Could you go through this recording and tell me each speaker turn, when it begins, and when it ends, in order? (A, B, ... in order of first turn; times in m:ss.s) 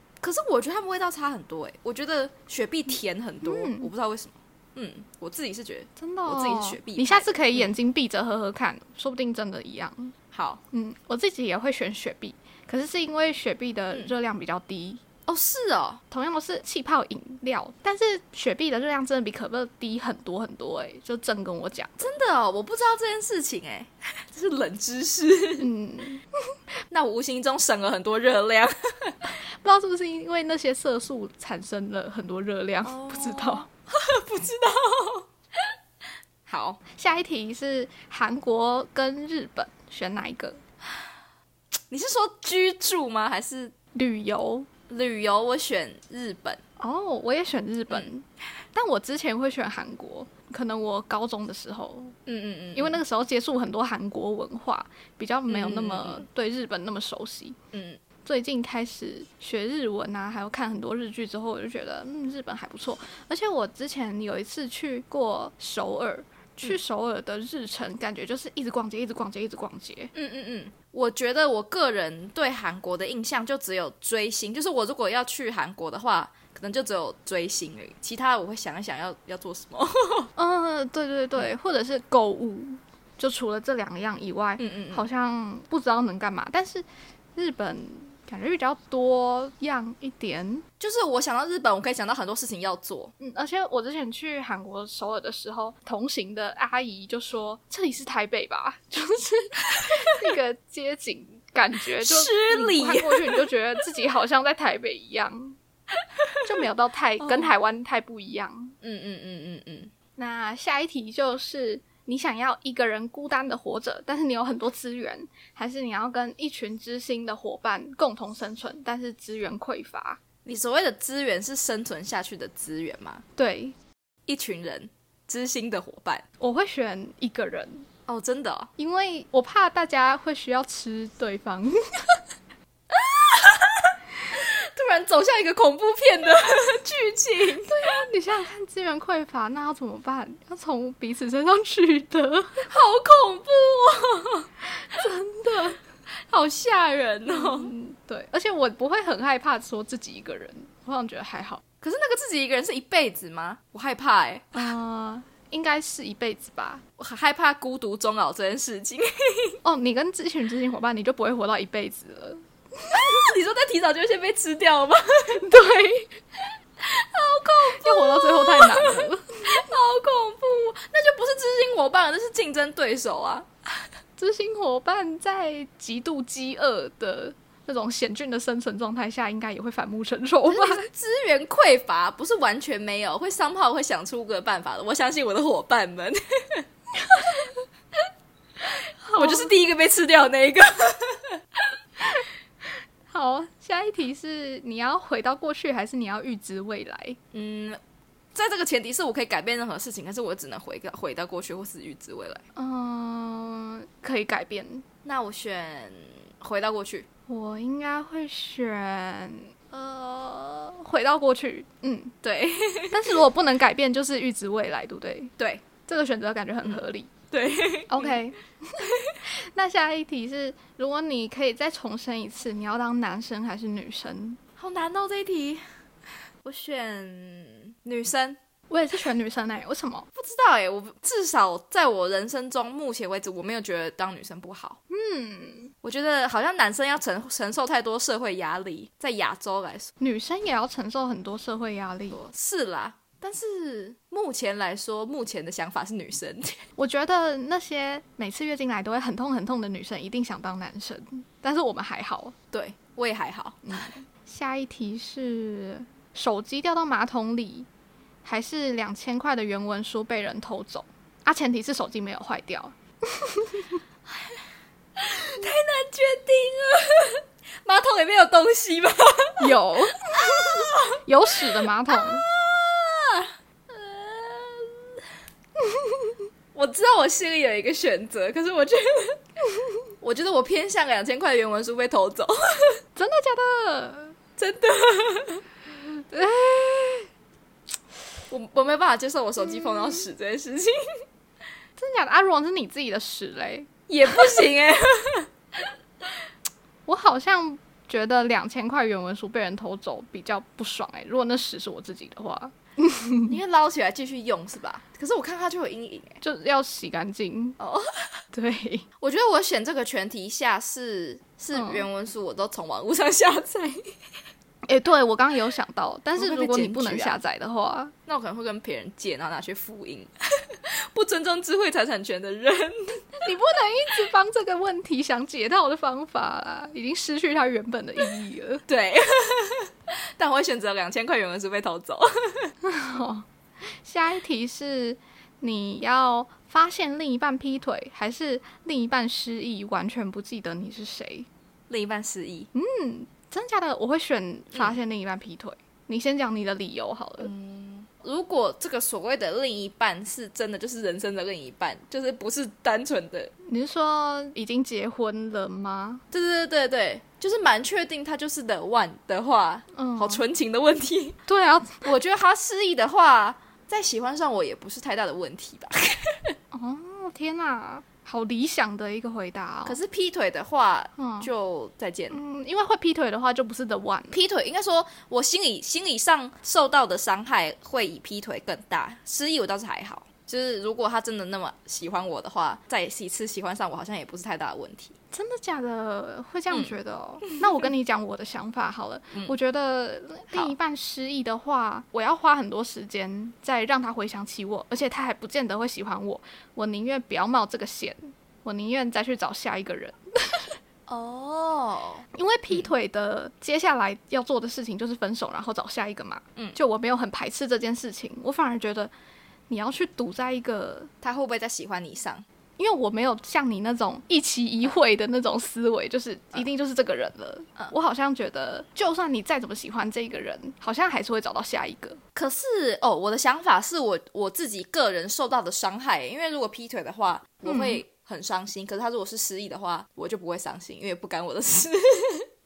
0:00.2-0:07.7 A
0:03.4-0:03.9 B
0:06.0-0:10.1 B
0:10.3-0:10.6 A
0:10.7-0:15.0 B
0:15.3-0:16.0 A
0:16.1-0:22.1 B
0:22.0-0:25.7 A
0:25.6-0:26.2 B
0:26.9-0:29.2 A
0:29.2-0:33.7 B
0:32.8-0:35.7 A
0:36.4-0:36.8 A
0:36.9-0:40.6 B
0:41.9-0:43.7 A
0:43.9-0:44.7 B
0:44.9-0:46.6 A
0:46.8-0:52.1 B
0:52.2-0:53.0 A
0:52.7-0:57.6 B
0:55.5-0:56.2 A
0:57.7-0:58.0 A
0:58.2-1:10.1 B
1:10.1-1:20.3 A
1:20.4-1:30.6 B
1:24.6-1:25.1 A
1:30.8-1:33.1 A
1:33.2-1:45.6 B
1:39.8-1:40.3 A
1:42.0-1:43.5 A
1:46.4-1:48.8 B
1:47.2-1:47.5 A
1:48.8-1:49.9 A
1:50.2-2:00.2 B
2:00.4-2:03.2 A
2:03.4-2:03.8 B
2:04.3-2:06.2 A
2:06.4-2:07.9 B
2:08.1-2:08.7 A
2:08.8-2:11.8 B
2:12.9-2:17.8 A
2:17.7-2:22.7 B
2:22.6-2:24.5 A
2:24.8-2:25.8 B
2:26.3-2:27.7 A
2:27.3-2:31.6 B
2:31.8-2:34.6 A
2:34.5-2:36.8 B
2:37.0-2:39.6 A
2:39.6-2:43.2 B
2:42.9-2:45.4 A
2:45.3-2:46.2 B
2:46.8-2:53.5 A
2:47.7-2:49.5 B
2:54.2-3:00.9 B
3:00.5-3:06.6 A
3:09.1-3:09.5 B
3:09.1-3:11.7 A
3:13.1-3:17.2 B
3:17.3-3:17.8 A
3:18.3-3:22.4 A
3:22.6-3:24.8 B
3:25.0-3:27.1 A
3:27.3-3:32.1 B
3:32.2-3:33.2 A
3:32.9-3:35.3 B
3:35.4-3:35.6 A
3:35.8-3:37.1 B
3:36.6-3:38.2 A
3:37.9-3:44.4 B
3:38.8-3:39.1 A
3:44.6-3:45.6 A
3:46.4-3:48.4 A
3:48.7-3:50.1 B
3:50.1-3:54.8 A
3:54.9-3:55.7 B
3:55.8-3:59.9 A
4:00.0-4:02.2 B
4:02.1-4:06.6 A
4:06.8-4:12.3 B
4:12.5-4:13.6 A
4:13.7-4:17.7 B
4:18.2-4:23.8 B
4:24.1-4:24.4 A
4:25.0-4:29.5 A
4:29.4-4:32.2 B
4:30.2-4:31.0 A
4:31.9-4:35.0 A
4:35.6-4:36.1 B
4:36.6-4:39.2 A
4:40.0-4:42.8 A
4:43.0-4:44.2 B
4:44.4-4:45.4 A
4:46.0-4:47.1 B
4:48.3-4:51.0 A
4:51.8-4:54.4 B
4:53.9-4:55.3 A
4:56.9-5:03.3 B
5:03.3-5:06.2 A
5:06.2-5:07.6 B
5:07.6-5:08.2 A
5:08.3-5:08.8 B
5:09.0-5:13.8 A
5:11.5-5:11.8 B
5:14.7-5:17.9 B
5:16.2-5:17.2 A
5:18.1-5:23.0 A
5:23.2-5:28.6 B
5:28.7-5:32.5 A
5:32.6-5:33.2 B
5:33.8-5:41.3 B
5:41.7-5:42.5 A
5:42.5-5:47.3 B
5:47.2-5:53.3 A
5:53.4-5:56.0 B
5:56.1-6:01.2 A
5:59.7-6:00.2 B
6:01.3-6:01.9 B
6:01.8-6:06.3 A
6:06.5-6:09.8 B
6:09.7-6:12.2 A
6:11.0-6:11.3 B
6:12.1-6:14.2 B
6:14.1-6:24.9 A
6:25.1-6:40.4 B
6:40.9-6:42.7 A
6:42.1-6:48.9 B
6:49.5-6:50.9 B
6:51.0-6:52.2 A
6:52.6-7:02.0 B
7:02.1-7:12.3 A
7:07.4-7:07.8 B